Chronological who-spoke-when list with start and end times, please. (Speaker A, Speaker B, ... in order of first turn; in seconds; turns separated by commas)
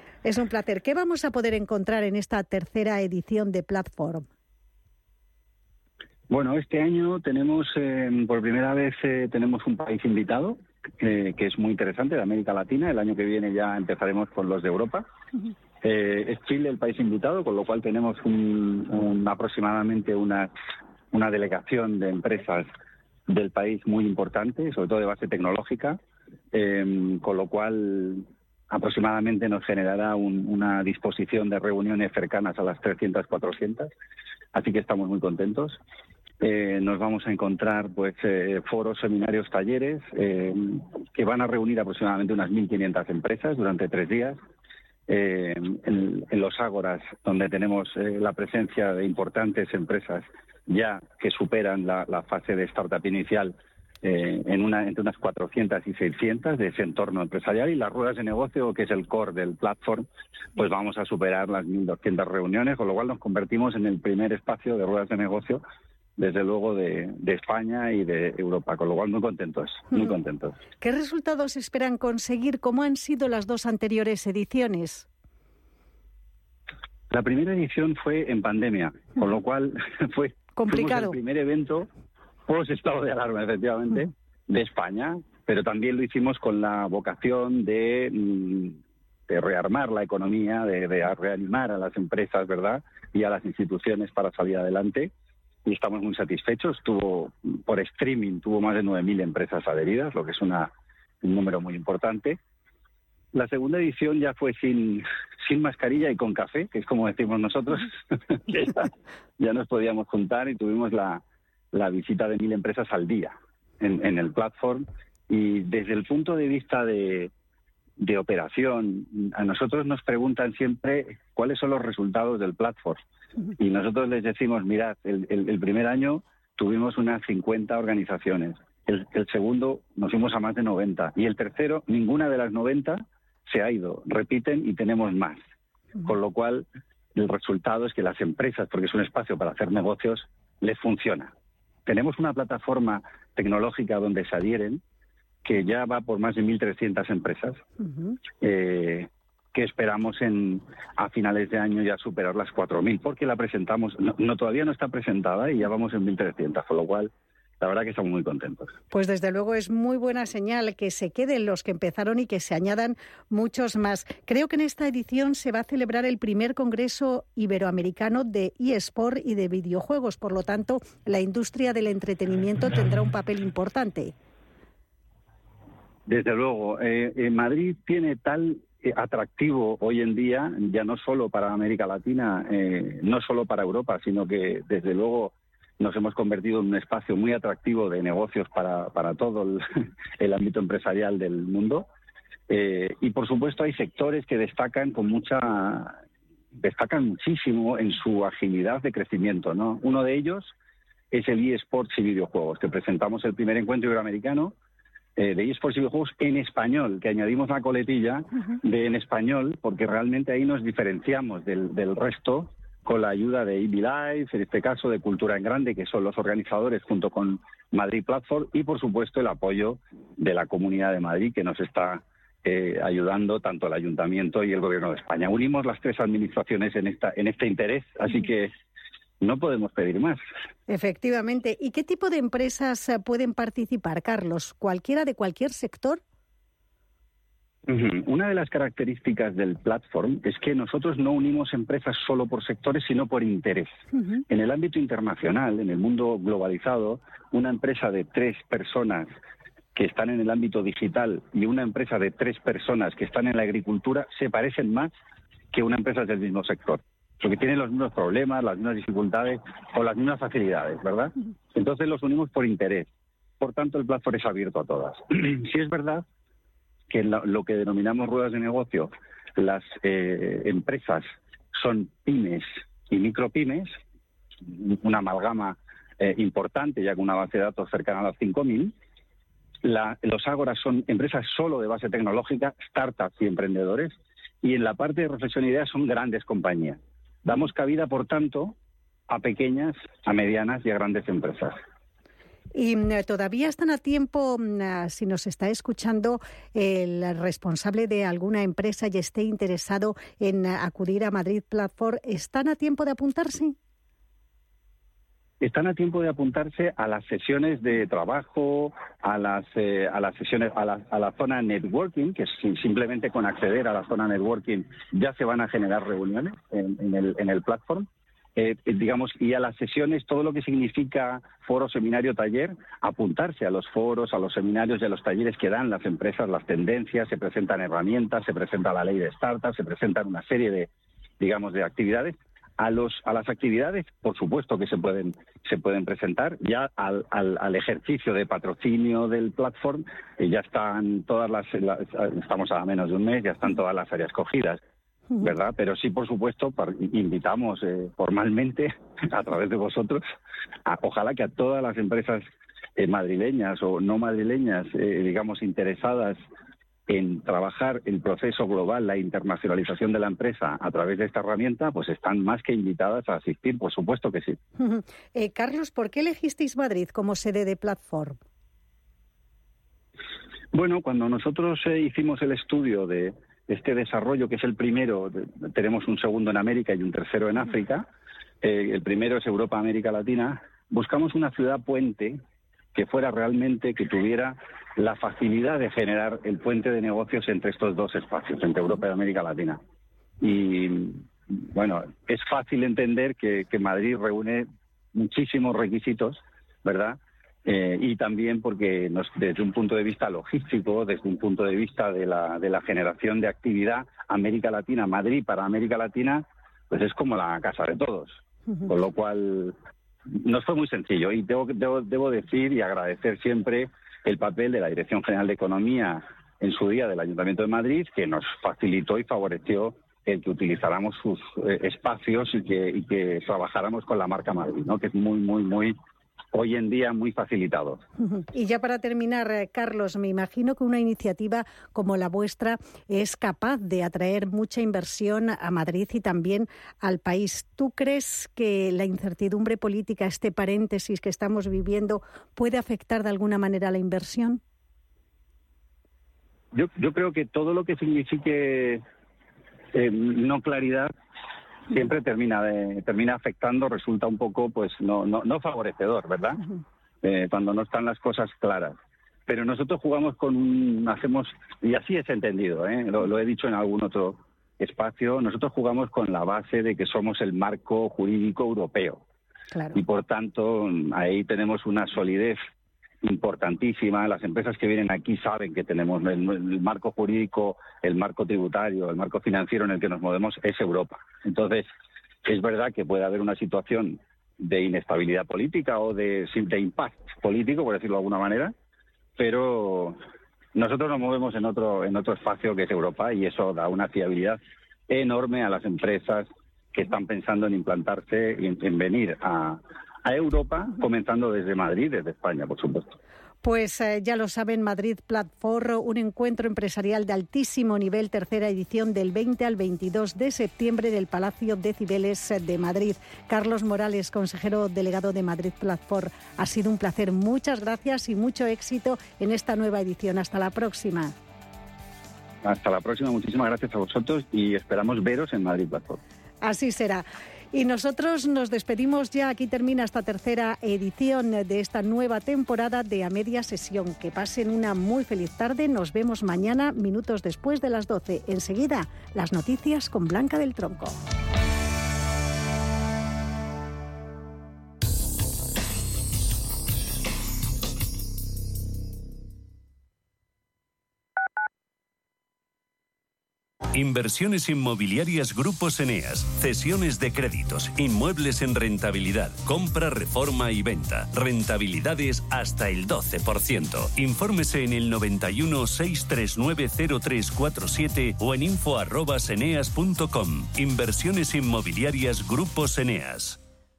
Speaker A: 0.2-4.2, Speaker B: 6.3-15.1, Speaker B: 15.8-20.5, Speaker B: 21.1-22.7, Speaker B: 23.3-26.0, Speaker B: 26.5-33.9, Speaker B: 34.5-35.8, Speaker B: 36.4-44.4, Speaker B: 45.1-65.6, Speaker B: 66.2-70.6, Speaker A: 70.8-75.0, Speaker B: 77.1-81.9, Speaker A: 80.5-81.1, Speaker B: 82.5-95.1, Speaker B: 95.6-100.7, Speaker B: 101.2-102.4, Speaker B: 103.3-117.3, Speaker B: 118.0-123.0, Speaker B: 123.6-135.4, Speaker B: 136.0-141.3, Speaker B: 141.8-144.8, Speaker B: 145.4-147.6, Speaker B: 148.3-158.7, Speaker A: 158.9-174.1, Speaker B: 176.1-189.6, Speaker B: 190.2-191.9, Speaker B: 192.5-196.0, Speaker B: 196.5-200.5, Speaker B: 201.1-204.5, Speaker B: 205.2-228.5, Speaker B: 229.2-230.2, Speaker A: 230.7-236.0, Speaker B: 237.7-249.1, Speaker B: 249.7-254.9, Speaker B: 255.5-262.9, Speaker B: 263.4-266.0, Speaker B: 266.9-273.7, Speaker B: 274.5-278.7, Speaker B: 279.6-288.5, Speaker B: 289.1-291.6, Speaker A: 292.5-303.6, Speaker B: 305.4-344.6, Speaker B: 345.2-350.1, Speaker B: 350.6-352.2, Speaker B: 352.8-356.2, Speaker B: 356.9-364.4, Speaker A: 364.6-368.2, Speaker B: 370.5-377.9, Speaker B: 378.4-382.2, Speaker B: 382.7-389.6, Speaker B: 390.2-409.6, Speaker B: 410.1-425.8, Speaker B: 426.3-427.8, Speaker A: 428.2-444.4, Speaker B: 446.5-448.8, Speaker B: 449.7-450.9, Speaker B: 451.7-456.4, Speaker B: 457.0-469.0, Speaker A: 469.5-469.8, Speaker B: 469.7-472.4, Speaker B: 473.0-481.7, Speaker B: 482.2-488.5, Speaker B: 489.2-490.0, Speaker B: 490.5-503.0, Speaker A: 503.4-521.1, Speaker B: 522.4-526.0, Speaker A: 526.4-541.0, Speaker C: 553.7-573.4